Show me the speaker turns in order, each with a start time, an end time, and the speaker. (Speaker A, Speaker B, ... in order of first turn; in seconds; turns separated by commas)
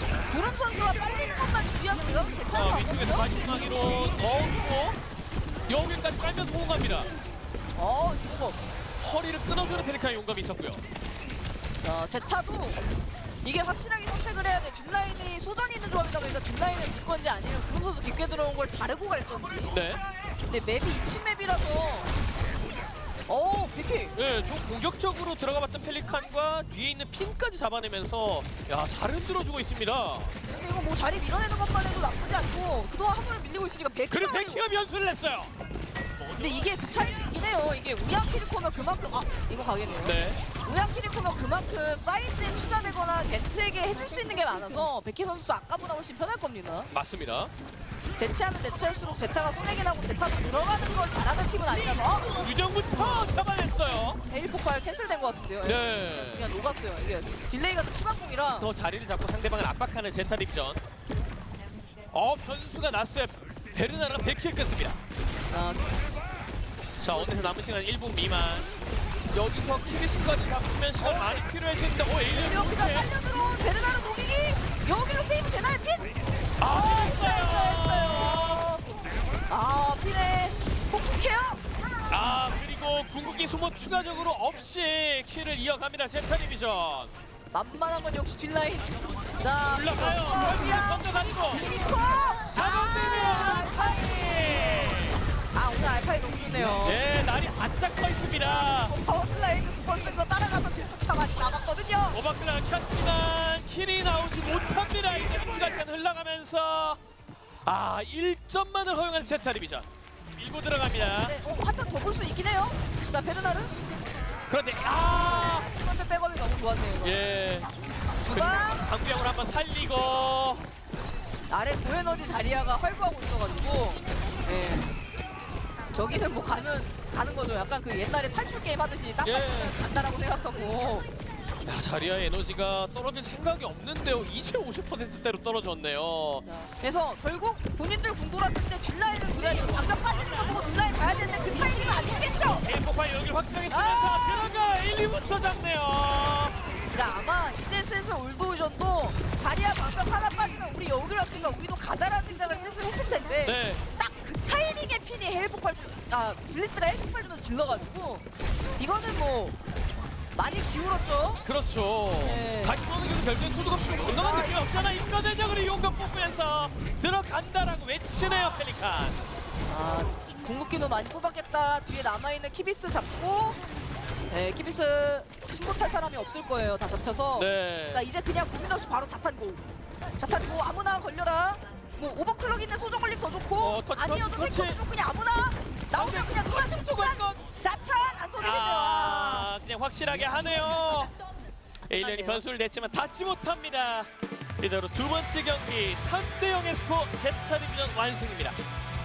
Speaker A: 0.3-3.3, Speaker B: 2.5-5.1, Speaker B: 5.7-7.1, Speaker A: 7.8-8.6, Speaker B: 9.0-10.8, Speaker A: 11.8-12.8, Speaker A: 13.4-19.8, Speaker B: 19.7-20.0, Speaker A: 20.5-22.1, Speaker A: 23.3-24.1, Speaker B: 24.1-30.3, Speaker A: 30.5-34.6, Speaker B: 34.1-35.5, Speaker A: 36.3-46.9, Speaker B: 40.0-40.4, Speaker B: 46.9-47.5, Speaker A: 48.2-52.5, Speaker B: 52.3-54.2, Speaker A: 54.3-58.7, Speaker B: 55.6-56.5, Speaker B: 58.6-60.8, Speaker B: 62.1-65.0, Speaker A: 65.5-65.9, Speaker B: 67.0-68.7, Speaker B: 69.3-73.1, Speaker A: 71.0-71.5, Speaker A: 72.3-78.9, Speaker B: 76.6-78.6, Speaker A: 79.5-81.6, Speaker B: 82.1-87.1, Speaker A: 87.5-88.9, Speaker A: 89.4-94.7, Speaker B: 89.7-91.7, Speaker B: 92.5-95.2, Speaker A: 95.5-97.0, Speaker B: 96.8-99.0, Speaker A: 98.3-102.2, Speaker B: 102.1-107.0, Speaker B: 107.6-111.3, Speaker A: 111.2-113.8, Speaker B: 114.5-115.7, Speaker A: 114.8-117.2, Speaker B: 117.0-117.7, Speaker A: 118.2-118.9, Speaker B: 118.3-120.6, Speaker A: 121.5-124.9, Speaker A: 125.9-131.1, Speaker B: 129.2-129.8, Speaker B: 131.6-136.4, Speaker A: 136.5-142.6, Speaker B: 139.6-139.8, Speaker B: 142.6-146.6, Speaker A: 143.7-144.5, Speaker A: 146.9-158.2, Speaker B: 153.4-153.8, Speaker A: 158.8-159.6, Speaker A: 160.3-161.4, Speaker B: 161.4-169.2, Speaker A: 162.2-162.8, Speaker A: 164.0-164.6, Speaker A: 169.7-173.6, Speaker A: 174.3-179.6, Speaker B: 177.4-178.1, Speaker A: 180.2-189.5, Speaker B: 183.6-184.8, Speaker B: 185.9-187.4, Speaker B: 188.4-191.1, Speaker B: 191.9-198.6, Speaker A: 192.0-192.4